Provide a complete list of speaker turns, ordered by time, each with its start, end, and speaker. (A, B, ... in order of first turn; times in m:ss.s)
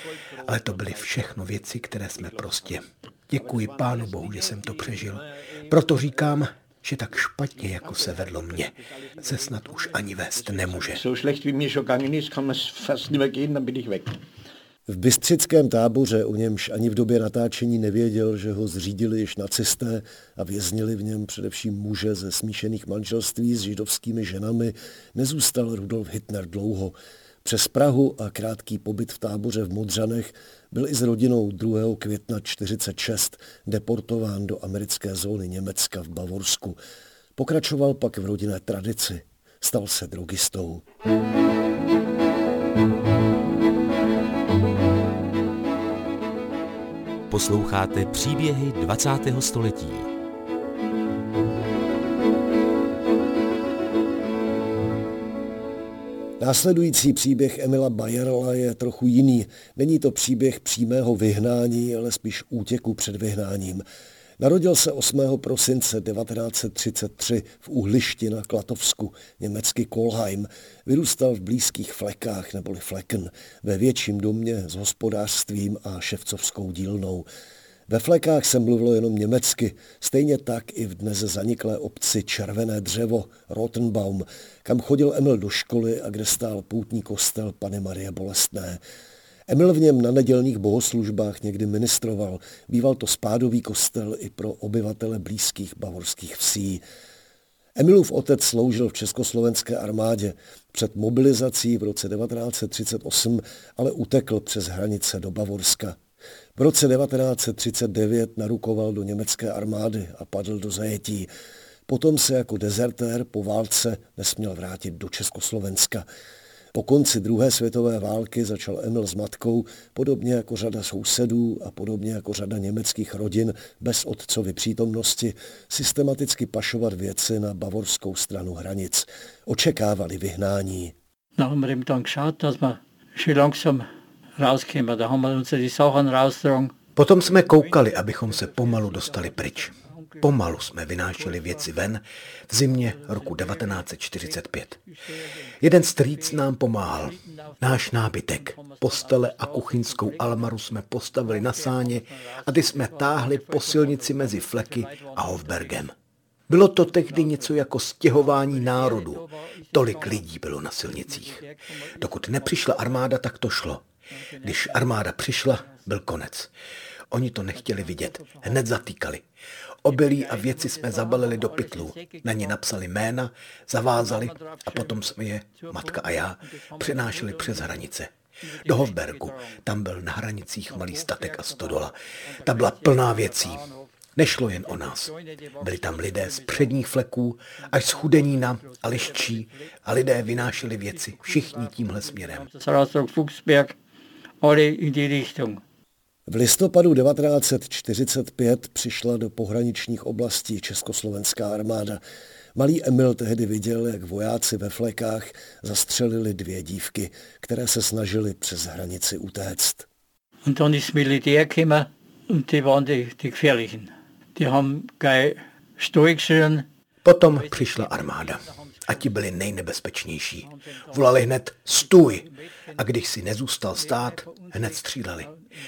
0:00.4-0:11.0 A
0:10.9-0:14.1 B
0:14.9-0:36.8 C
0:37.4-0:40.8 C
0:47.3-0:50.1 D
0:56.4-1:03.8 C
1:04.4-1:17.3 C
1:17.9-1:28.8 C
1:29.5-1:36.8 C
1:37.8-1:46.0 C
1:46.6-1:51.3 C
1:51.9-1:56.0 C
1:56.7-2:10.9 C
2:11.4-2:13.8 E
2:14.4-2:16.7 E
2:17.0-2:24.8 A
2:25.6-2:35.9 A
2:27.4-2:27.8 E
2:28.5-2:28.8 E
2:31.3-2:32.1 E
2:33.0-2:35.7 E
2:36.5-2:41.4 A
2:39.0-2:39.7 E
2:42.0-2:43.8 A
2:44.4-2:46.5 A
2:47.1-2:49.2 A
2:49.8-2:58.1 A
2:51.2-2:52.2 E
2:54.0-2:54.8 E
2:56.7-2:57.7 E
2:58.6-3:03.6 A
2:58.7-2:59.2 E
3:01.3-3:01.7 E
3:02.5-3:03.7 E
3:04.2-3:12.5 A
3:05.4-3:06.7 E
3:08.7-3:09.5 E
3:12.3-3:13.8 E
3:14.4-3:15.6 E
3:16.3-3:22.0 C
3:22.5-3:29.9 C
3:30.4-3:36.6 E
3:37.0-3:45.3 A